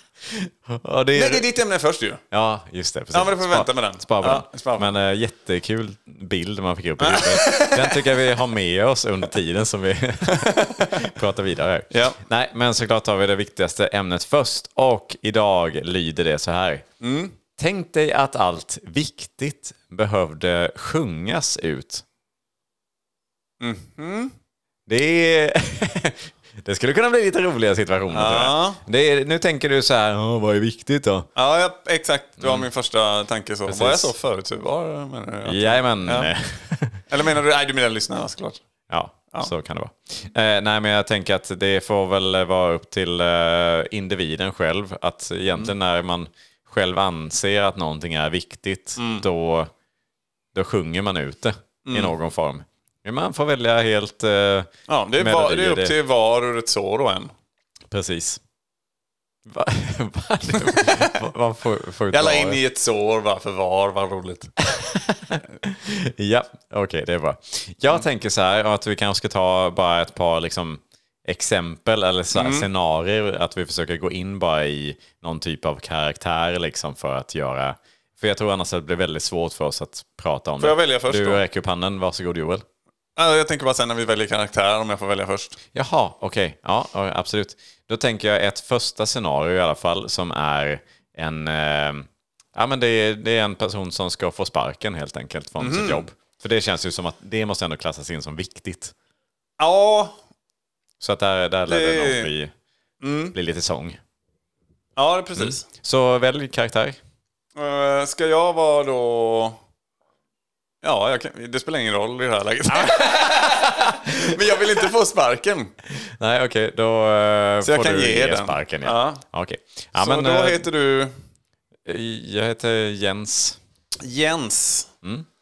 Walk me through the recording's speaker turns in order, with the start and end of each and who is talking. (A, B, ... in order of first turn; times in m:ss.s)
0:00.3-0:01.4 A
0:01.1-0:02.2 B
0:02.3-0:16.8 A
0:03.1-0:04.9 B
0:07.0-0:08.0 B
0:10.3-0:11.0 B
0:11.9-0:12.2 B
0:17.0-0:17.3 B
0:17.6-0:22.0 A
0:23.6-0:24.3 B
0:24.9-0:31.3 A
0:28.1-0:28.8 B
0:31.4-0:36.3 B
0:32.4-0:32.7 A
0:33.7-0:34.1 A
0:35.4-0:37.0 A
0:37.1-0:38.6 B
0:38.9-0:49.7 A
0:49.0-0:49.2 B
0:50.5-0:55.9 A
0:51.8-0:52.1 B
0:54.9-0:57.3 B
0:57.9-0:58.4 A
0:59.4-1:02.6 A
1:00.7-1:01.1 B
1:02.1-1:04.5 B
1:04.6-1:22.6 A
1:12.3-1:12.7 B
1:20.6-1:21.4 B
1:23.2-1:25.6 B
1:25.7-1:38.9 A
1:35.6-1:36.0 B
1:39.6-1:40.2 B
1:41.0-1:42.5 A
1:41.7-1:42.3 B
1:43.0-1:43.3 B
1:43.3-1:44.0 A
1:45.0-1:45.6 B
1:45.4-1:47.0 A
1:47.5-1:49.6 B
1:50.8-1:55.7 B
1:52.8-1:54.3 A
1:55.9-2:00.6 A
1:57.6-1:59.2 B
2:00.0-2:01.1 B
2:01.8-2:03.6 A
2:04.0-2:04.9 B